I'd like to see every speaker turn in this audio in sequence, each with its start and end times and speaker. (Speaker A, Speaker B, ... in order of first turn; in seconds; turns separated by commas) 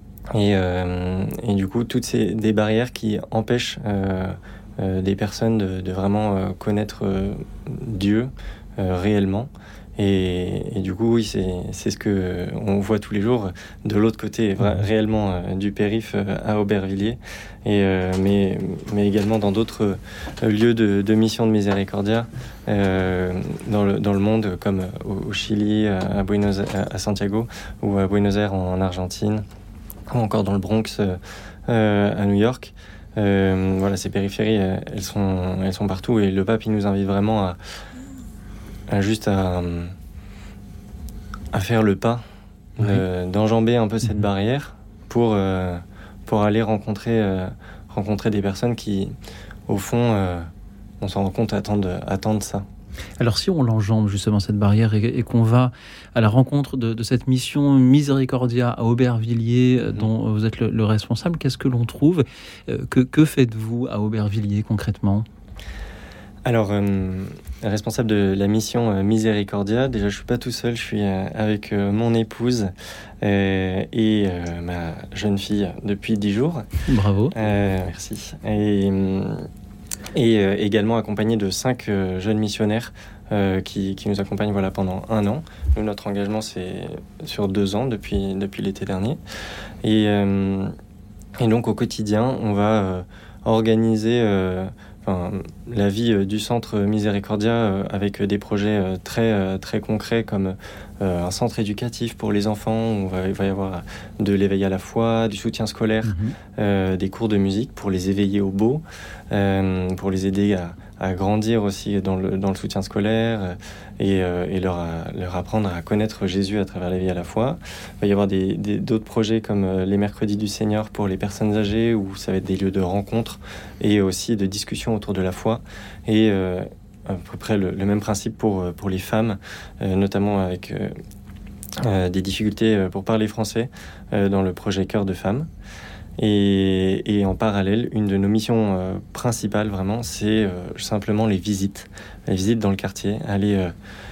Speaker A: 0.3-29.4, Speaker A: 30.1-37.6, Speaker A: 38.9-39.9, Speaker A: 41.5-42.2, Speaker A: 42.8-49.1, Speaker A: 49.7-50.5, Speaker A: 51.0-52.6, Speaker B: 53.2-65.3, Speaker A: 66.5-76.7, Speaker B: 76.9-77.3, Speaker A: 77.3-79.5, Speaker A: 80.1-89.2, Speaker A: 89.8-90.8, Speaker A: 91.4-130.9, Speaker B: 106.0-106.3, Speaker A: 131.8-135.5, Speaker A: 136.2-143.7